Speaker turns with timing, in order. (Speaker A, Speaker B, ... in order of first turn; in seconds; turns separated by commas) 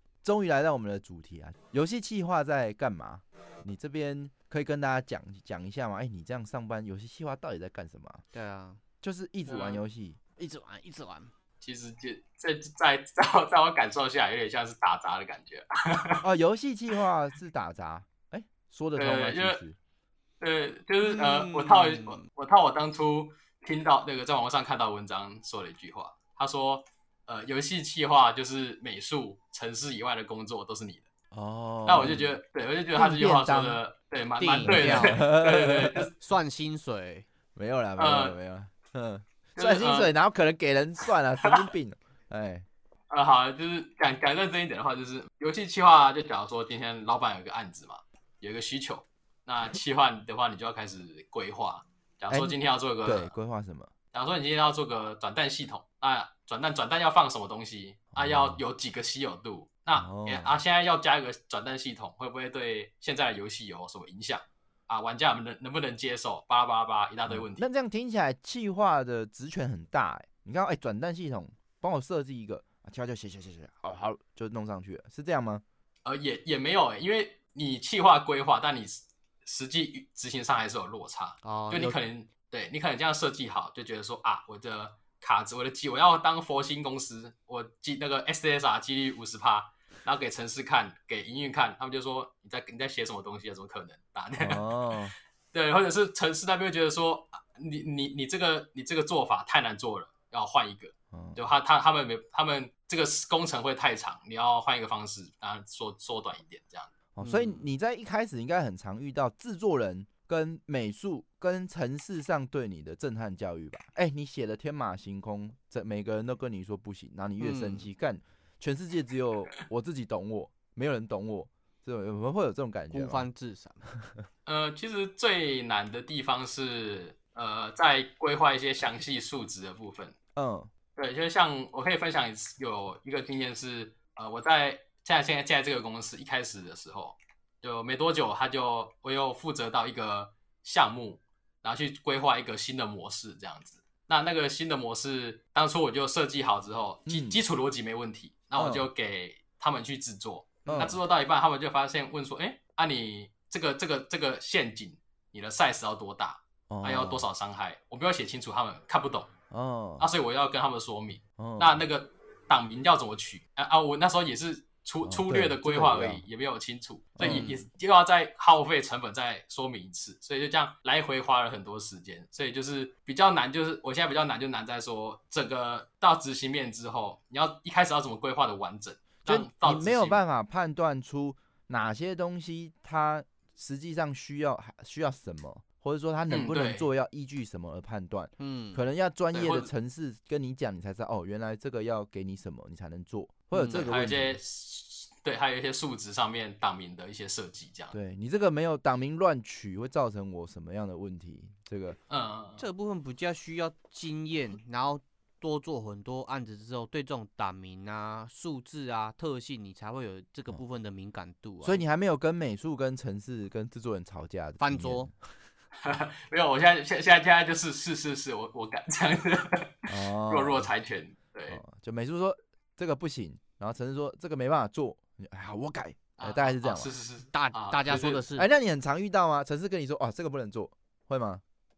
Speaker A: 0.2-8.2, Speaker B: 8.3-8.8, Speaker A: 9.0-10.2, Speaker C: 9.4-9.8, Speaker B: 10.3-11.3, Speaker C: 11.6-16.2, Speaker A: 16.2-19.8, Speaker C: 18.9-19.6, Speaker C: 20.4-31.1, Speaker B: 21.0-22.2, Speaker A: 31.3-32.4, Speaker C: 31.9-36.1, Speaker A: 32.9-33.8, Speaker B: 34.4-35.2, Speaker A: 34.6-36.1, Speaker B: 36.1-37.2, Speaker A: 37.5-42.6, Speaker C: 38.0-38.4, Speaker C: 39.5-40.1, Speaker C: 43.1-53.3, Speaker A: 52.3-53.9, Speaker C: 54.1-67.7, Speaker A: 58.1-58.6, Speaker A: 59.9-60.6, Speaker A: 67.3-75.6, Speaker C: 76.0-94.8, Speaker B: 81.4-82.0, Speaker A: 94.4-95.1, Speaker C: 95.5-106.9, Speaker A: 101.1-101.4, Speaker A: 107.2-123.3, Speaker B: 107.2-107.7, Speaker B: 117.4-117.8, Speaker B: 122.9-123.9, Speaker C: 124.5-130.1, Speaker A: 130.3-130.7, Speaker C: 130.9-159.3, Speaker A: 147.1-147.4, Speaker A: 148.6-148.9, Speaker A: 150.7-151.0, Speaker A: 156.7-157.3, Speaker A: 159.5-160.1, Speaker C: 160.0-180.2, Speaker A: 161.4-161.8, Speaker A: 165.0-166.2, Speaker A: 167.2-167.5, Speaker B: 167.2-167.7, Speaker A: 179.2-194.4, Speaker C: 186.3-186.9, Speaker B: 188.4-188.8, Speaker C: 189.3-189.7, Speaker B: 193.5-193.9, Speaker C: 193.7-197.9, Speaker A: 197.9-202.0, Speaker C: 202.1-202.6, Speaker B: 202.6-211.8, Speaker A: 211.6-215.2, Speaker B: 214.6-215.1, Speaker C: 215.8-221.6, Speaker A: 219.9-220.7, Speaker A: 221.5-226.9, Speaker C: 226.2-228.2, Speaker B: 227.3-228.5, Speaker A: 228.3-231.4